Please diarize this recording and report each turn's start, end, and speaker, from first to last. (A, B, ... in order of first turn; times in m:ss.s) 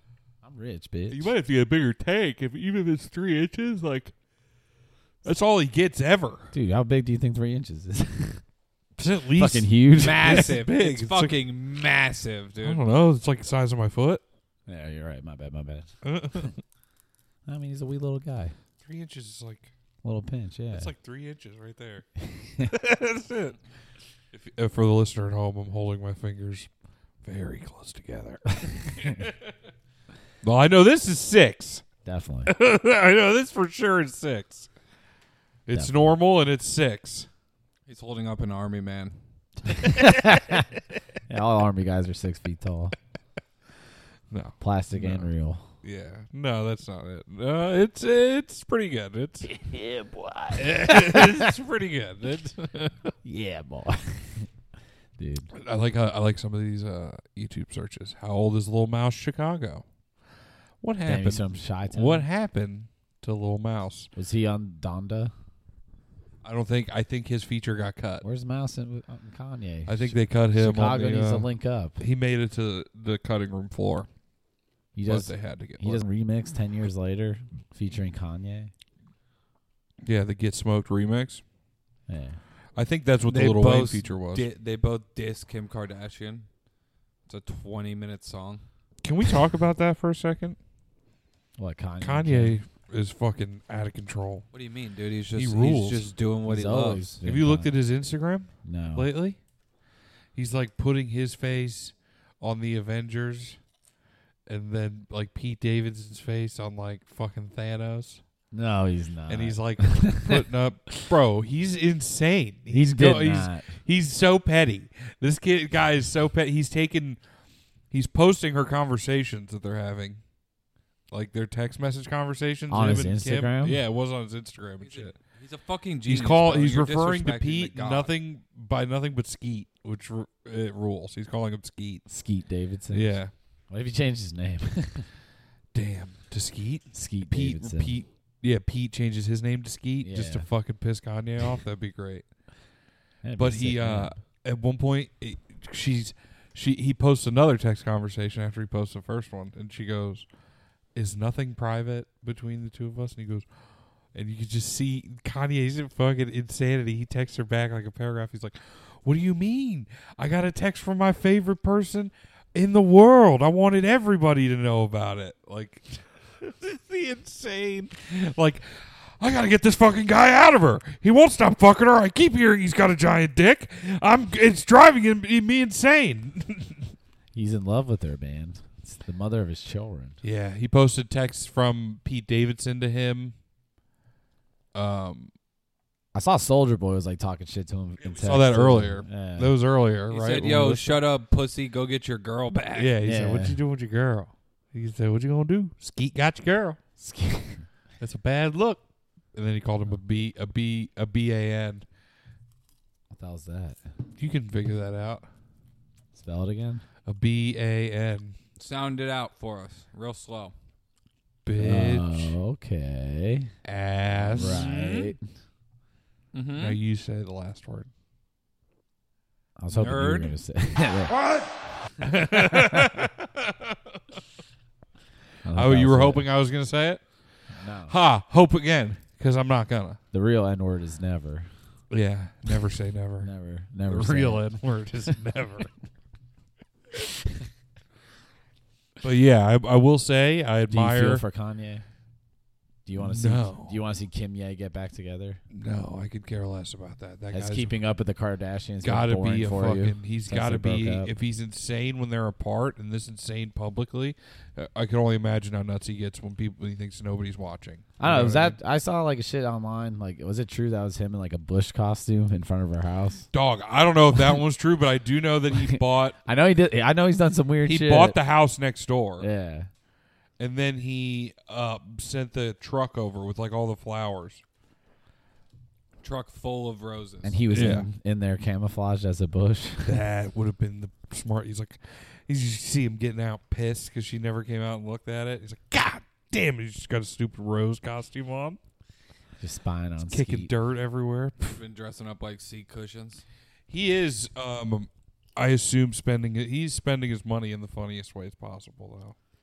0:00.4-0:01.3 A
0:01.1-0:04.1 B
0:05.2-0:06.5 B
0:06.5-0:08.4 A
0:09.0-0:11.4 B
0:09.4-0:10.5 A
0:10.0-0:12.8 C
0:12.6-0:14.2 B
0:14.7-0:15.9 A
0:16.0-0:16.6 B
0:17.5-0:18.6 A
0:18.8-0:19.7 B
0:20.0-0:20.9 A
0:20.7-0:22.1 B
0:22.3-0:22.7 A
0:22.6-0:23.6 B
0:24.3-0:26.7 B
0:27.2-0:29.3 B
0:30.4-0:31.8 B
0:32.0-0:32.5 A
0:32.5-0:34.7 B
0:35.7-0:37.3 B
0:35.7-0:36.2 A
0:37.9-0:39.2 C
0:39.8-0:40.7 A
0:40.0-0:40.3 B
0:41.3-0:43.0 A
0:44.3-0:45.3 B
0:44.6-0:45.6 A
0:45.8-0:49.5 B
0:49.4-0:51.5 A
0:50.6-0:53.1 B
0:53.2-0:54.5 A
0:55.2-0:55.5 A
0:55.6-0:59.8 B
1:00.8-1:04.1 B
1:01.0-1:02.3 A
1:04.2-1:05.3 A
1:06.4-1:08.2 B
1:08.2-1:12.0 A
1:09.9-1:11.5 B
1:12.0-1:14.1 B
1:15.0-1:18.7 A
1:15.0-1:16.0 B
1:20.0-1:21.4 B
1:22.1-1:22.4 A
1:22.8-1:24.5 B
1:23.2-1:26.5 C
1:27.3-1:28.6 C
1:29.0-1:30.6 B
1:31.6-1:32.6 A
1:32.0-1:34.5 B
1:34.5-1:37.2 C
1:35.4-1:36.1 B
1:36.5-1:37.7 A
1:37.2-1:39.4 B
1:38.6-1:39.1 A
1:40.4-1:43.6 B
1:44.5-1:48.2 B
1:48.5-1:50.5 A
1:49.3-1:57.2 B
1:52.7-1:53.8 A
1:57.9-2:00.2 B
2:01.1-2:05.2 B
2:02.7-2:03.8 A
2:04.8-2:08.1 C
2:06.1-2:12.1 B
2:12.1-2:15.1 A
2:12.9-2:13.3 B
2:15.7-2:22.3 B
2:16.9-2:17.9 A
2:20.0-2:20.5 A
2:23.2-2:24.1 A
2:23.4-2:30.3 B
2:30.9-2:33.5 B
2:34.1-2:56.8 B
2:57.3-3:00.2 A
3:00.2-3:03.4 B
3:04.7-3:05.3 B
3:06.1-3:09.6 A
3:08.1-3:11.0 B
3:10.1-3:13.0 C
3:12.7-3:16.8 B
3:13.0-3:13.6 A
3:17.0-3:17.7 A
3:18.0-3:18.8 B
3:19.3-3:21.8 B
3:23.1-3:23.8 A
3:24.2-3:25.3 B
3:26.1-3:26.8 A
3:27.1-3:28.4 B
3:28.6-3:30.5 C
3:31.4-3:32.4 B
3:31.6-3:33.5 A
3:33.6-3:34.7 B
3:34.2-3:35.3 A
3:34.3-3:35.2 C
3:36.3-3:36.8 C
3:36.6-3:37.9 B
3:39.6-3:41.2 A
3:39.7-3:40.4 C
3:41.3-3:44.0 B
3:42.1-3:42.9 A
3:45.4-3:46.3 A
3:45.5-3:47.1 B
3:47.5-3:47.9 A
3:47.9-3:50.0 B
3:50.1-3:51.5 A
3:51.9-3:53.3 B
3:53.2-3:54.5 A
3:53.8-3:55.7 B
3:59.0-4:01.2 B
4:00.7-4:01.8 A
4:02.8-4:05.4 A
4:03.0-4:03.8 B
4:05.5-4:07.8 B
4:07.3-4:11.1 A
4:08.8-4:18.6 B
4:18.0-4:23.3 A
4:23.3-4:26.2 B
4:24.1-4:24.4 A
4:25.5-4:28.2 A
4:27.6-4:29.3 B
4:29.2-4:29.7 A
4:30.4-4:34.4 B
4:36.0-4:37.8 C
4:37.2-4:40.0 A
4:37.5-4:37.9 B
4:39.8-4:48.6 B
4:49.4-4:50.5 A
4:50.1-4:51.6 B
4:51.4-4:53.2 C
4:53.7-4:59.2 B